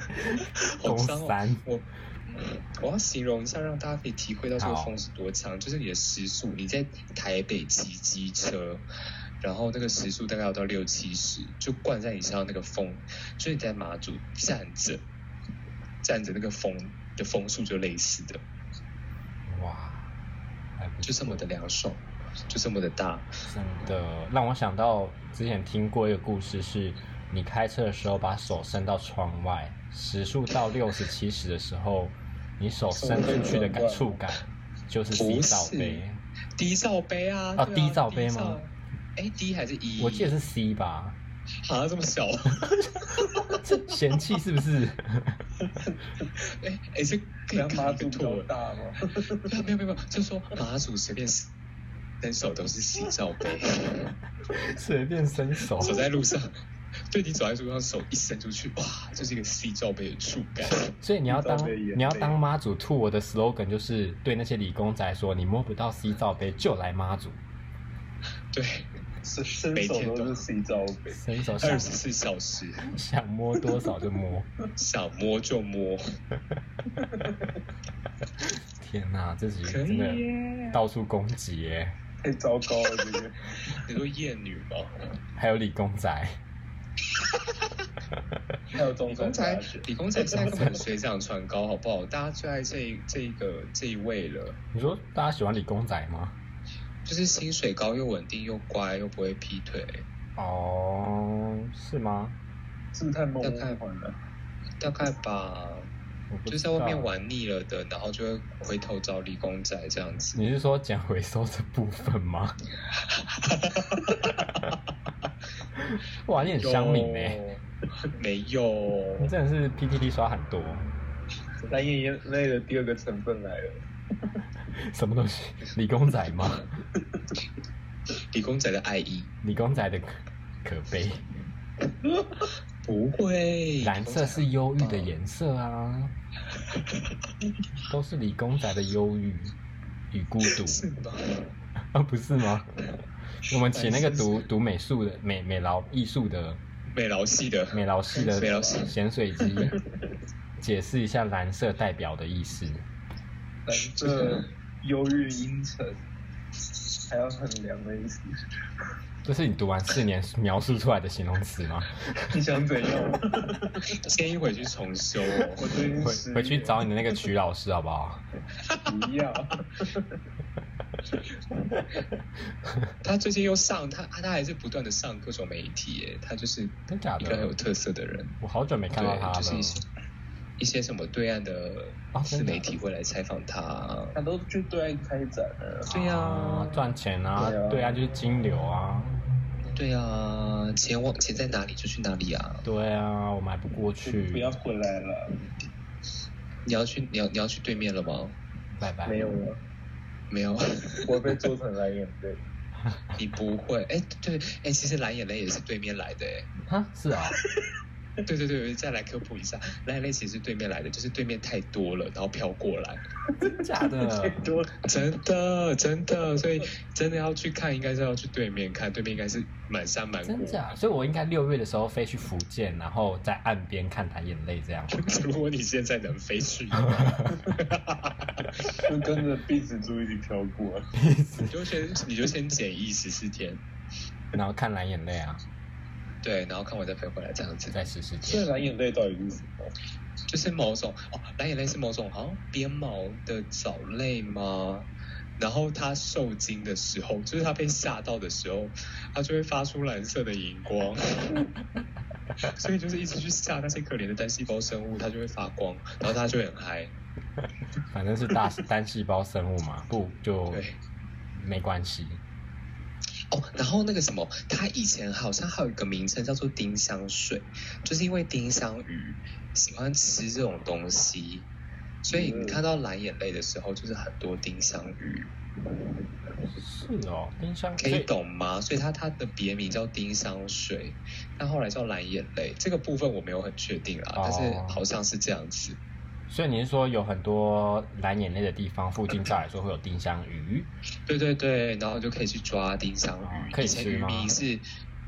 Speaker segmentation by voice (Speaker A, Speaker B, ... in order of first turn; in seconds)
Speaker A: 0.7-8.8, 9.4-15.0, 16.0-18.4, 21.0-23.3, 35.1-36.0, 36.6-40.3, 41.6-42.8, 46.4-48.5, 49.5-51.5, 52.2-54.1, 55.8-56.5, 57.1-60.9, 68.5-68.9, 69.7-70.4, 71.6-72.8, 74.8-76.0, 79.7-80.8, 83.8-84.9, 89.1-94.6, 97.0-100.0, 103.4-103.8, 104.8-105.9, 106.5-110.4, 113.3-114.1, 116.4-117.5, 118.1-119.3, 128.3-129.3, 132.8-135.1, 140.6-141.4, 143.7-144.4, 146.9-147.8, 148.3-148.9, 164.0-165.6, 173.0-178.4, 178.9-179.8, 180.6-184.2, 185.9-186.8, 189.7-192.6, 196.7-198.3, 200.3-201.5, 203.2-206.5, 208.2-213.0, 214.8-220.6, 224.9-228.8, 231.5-233.6, 236.2-237.8, 240.3-244.9, 245.4-251.5, 252.4-256.9, 260.5-260.8, 263.3-271.5, 272.0-275.3, 277.8-285.8, 291.1-294.6
Speaker B: 0.8-1.6, 4.6-4.9, 19.5-20.1, 20.8-21.5, 23.4-36.2, 37.6-38.6, 40.0-41.2, 43.5-45.4, 54.5-56.0, 60.6-67.4, 71.1-72.0, 72.9-74.5, 78.4-82.0, 85.4-86.4, 90.3-90.8, 94.7-96.4, 100.4-102.4, 106.3-107.3, 110.3-112.6, 115.8-117.4, 119.2-120.8, 124.8-126.7, 129.4-131.2, 133.8-136.1, 137.9-139.6, 140.1-140.8, 141.9-142.8, 143.5-146.6, 147.7-149.7, 150.6-152.8, 159.2-162.3, 166.0-168.2, 176.9-177.5, 178.4-179.8, 182.1-182.7, 185.9-189.2, 192.6-194.5, 198.8-199.2, 206.7-207.4, 213.4-214.5, 220.2-225.1, 226.9-227.3, 230.9-231.6, 234.3-235.4, 237.7-238.5, 257.9-260.6, 261.3-262.2, 276.5-278.1, 284.1-284.8, 286.3-290.7, 293.2-294.3
Speaker C: 32.9-34.2, 47.5-49.5, 61.3-62.4, 69.2-71.2, 77.0-77.5, 82.2-83.4, 88.7-90.6, 102.9-104.2, 121.7-123.8, 148.1-148.9, 153.7-156.0, 157.1-158.3, 162.3-164.0, 165.6-166.8, 168.9-170.1, 184.1-185.9, 187.3-188.0, 194.0-195.3, 199.1-199.6, 201.1-202.4, 213.4-214.8, 228.8-230.9, 238.3-239.7, 272.1-272.6